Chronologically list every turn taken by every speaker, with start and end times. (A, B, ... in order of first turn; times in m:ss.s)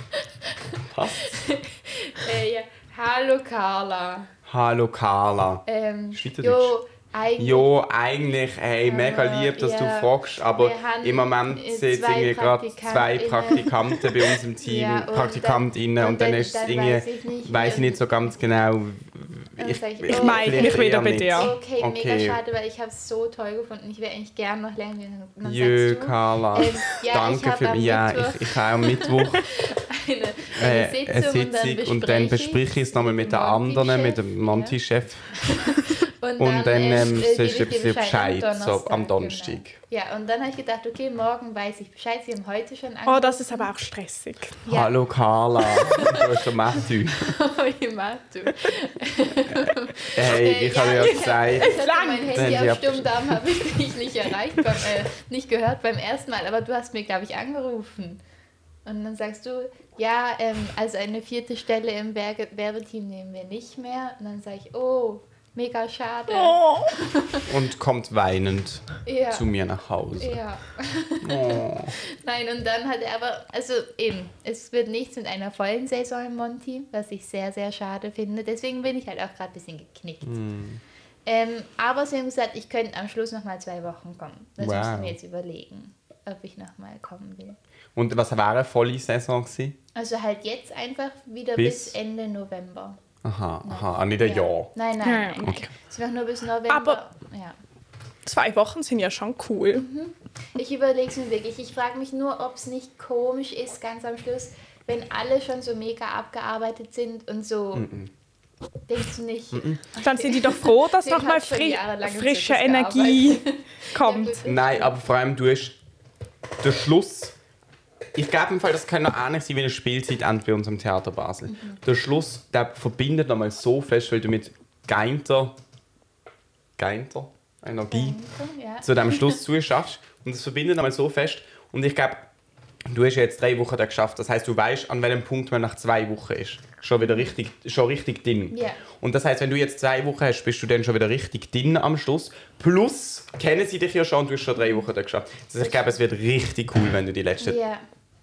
0:00.5-0:04.3 A
0:00.9-0:01.4 B
0:04.5-0:06.8 B
0:05.7-0:07.7 A
0:07.4-0:22.4 B
0:08.8-0:13.7 A
0:14.6-0:18.1 A
0:19.6-0:34.8 A
0:20.1-0:21.5 C
0:25.4-0:29.5 B
0:30.5-0:35.3 B
0:35.3-0:43.7 A
0:36.4-0:39.8 B
0:43.1-0:44.6 C
0:44.7-0:45.0 A
0:44.7-0:47.3 B
0:45.6-0:46.4 A
0:47.2-0:58.2 A
0:50.1-0:51.8 B
0:51.0-0:52.4 C
0:52.3-0:53.3 B
0:58.8-1:07.5 A
1:06.3-1:07.0 C
1:07.4-1:10.4 B
1:09.1-1:09.5 A
1:10.2-1:20.4 A
1:11.2-1:12.0 B
1:20.2-1:20.8 B
1:21.3-1:27.6 A
1:24.6-1:25.2 B
1:28.0-1:29.8 B
1:30.0-1:33.0 A
1:31.6-1:32.0 B
1:33.2-1:34.7 B
1:33.6-1:37.6 A
1:35.0-1:35.7 C
1:36.7-1:37.0 C
1:38.2-1:39.9 C
1:39.7-1:47.9 A
1:47.7-1:48.1 B
1:48.9-1:54.9 A
1:49.5-1:49.8 B
1:50.0-1:54.4 C
1:54.4-1:55.8 B
1:56.6-1:57.4 B
1:58.2-2:05.6 B
2:01.5-2:01.8 A
2:06.8-2:08.2 B
2:07.9-2:09.4 A
2:08.8-2:12.3 B
2:12.9-2:27.6 B
2:17.0-2:17.3 A
2:18.5-2:18.8 A
2:27.4-2:27.8 A